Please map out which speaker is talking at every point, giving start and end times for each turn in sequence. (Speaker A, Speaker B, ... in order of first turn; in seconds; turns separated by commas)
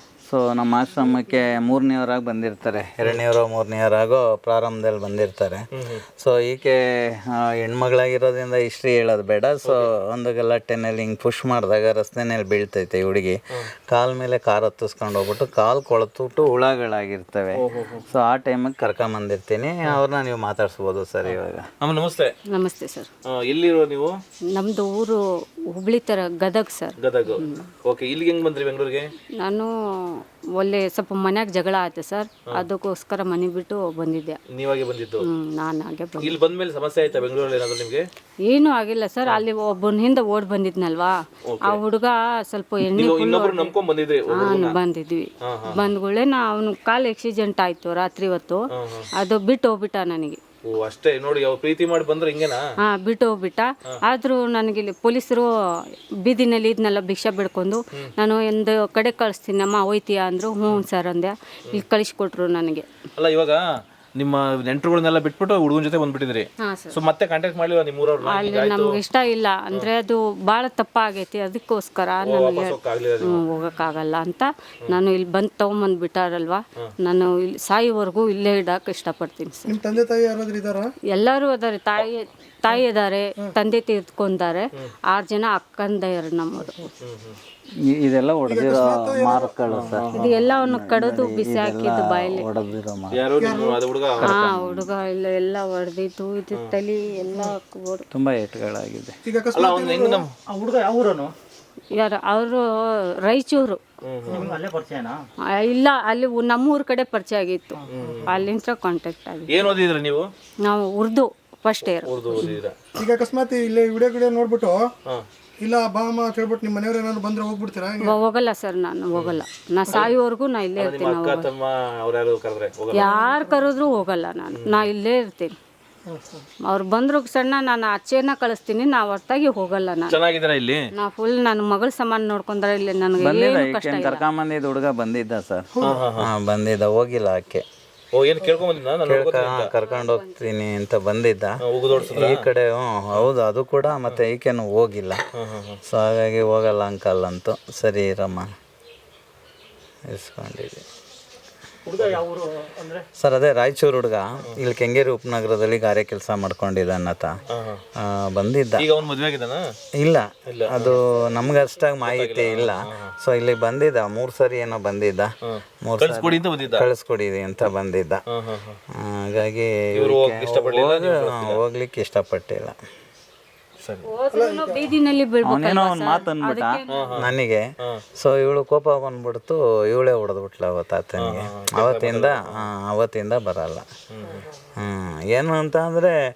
Speaker A: 0.2-5.7, Speaker B: 5.7-6.0, Speaker A: 6.2-21.7, Speaker B: 9.6-9.9, Speaker B: 17.5-18.0, Speaker B: 21.2-22.3, Speaker C: 22.5-23.1, Speaker B: 23.3-24.2, Speaker C: 24.5-25.2, Speaker C: 25.7-27.6, Speaker B: 27.0-29.1, Speaker C: 29.4-34.4, Speaker B: 34.5-35.2, Speaker C: 35.2-36.3, Speaker B: 36.2-38.1, Speaker C: 38.5-43.7, Speaker B: 41.5-41.8, Speaker B: 42.8-44.8, Speaker C: 44.3-48.6, Speaker B: 45.4-45.9, Speaker B: 48.7-49.1, Speaker C: 49.1-50.4, Speaker B: 50.6-52.6, Speaker C: 52.8-55.5, Speaker C: 56.2-62.9, Speaker B: 63.1-63.6, Speaker B: 64.2-69.0, Speaker C: 66.6-67.0, Speaker C: 68.2-79.7, Speaker B: 72.2-73.4, Speaker D: 79.7-80.9, Speaker C: 81.1-86.9, Speaker B: 87.0-87.4, Speaker A: 87.8-93.2, Speaker D: 88.5-89.5, Speaker B: 89.7-90.3, Speaker C: 90.1-92.5, Speaker B: 93.1-94.3, Speaker D: 93.4-93.8, Speaker A: 94.2-94.9, Speaker C: 94.2-98.1, Speaker A: 98.1-99.1, Speaker D: 99.2-100.3, Speaker B: 99.5-100.3, Speaker E: 100.5-101.3, Speaker C: 101.9-103.8, Speaker B: 104.0-104.5, Speaker D: 104.3-104.6, Speaker E: 104.3-105.2, Speaker C: 105.5-109.7, Speaker B: 107.9-108.4, Speaker D: 107.9-108.4, Speaker B: 109.5-110.3, Speaker C: 110.6-112.6, Speaker B: 112.0-112.7, Speaker D: 113.0-114.9, Speaker D: 115.6-118.2, Speaker C: 118.0-121.5, Speaker B: 119.1-120.1, Speaker B: 120.8-123.1, Speaker C: 122.9-125.5, Speaker D: 122.9-123.6, Speaker B: 124.5-124.9, Speaker D: 126.1-126.4, Speaker C: 126.7-130.2, Speaker B: 130.1-130.8, Speaker C: 130.9-134.2, Speaker A: 133.2-137.6, Speaker D: 135.7-136.1, Speaker B: 135.8-136.3, Speaker B: 138.1-139.7, Speaker A: 139.1-145.2, Speaker C: 139.7-140.4, Speaker B: 141.6-142.5, Speaker B: 145.3-145.8, Speaker A: 145.8-148.5, Speaker A: 150.1-150.8, Speaker E: 151.9-153.1, Speaker A: 153.2-157.4, Speaker B: 157.5-157.8, Speaker A: 157.9-158.8, Speaker B: 158.8-159.7, Speaker A: 160.0-165.3, Speaker B: 160.4-161.0, Speaker B: 162.0-163.1, Speaker B: 165.4-166.8, Speaker A: 165.8-168.2, Speaker B: 168.3-168.8, Speaker A: 168.9-172.7, Speaker B: 169.9-171.6, Speaker B: 173.8-174.1, Speaker C: 174.0-177.1, Speaker D: 174.3-174.9, Speaker A: 175.4-177.6, Speaker B: 176.9-177.3, Speaker A: 178.1-183.8, Speaker B: 181.2-182.6, Speaker B: 184.1-184.4, Speaker A: 184.8-186.1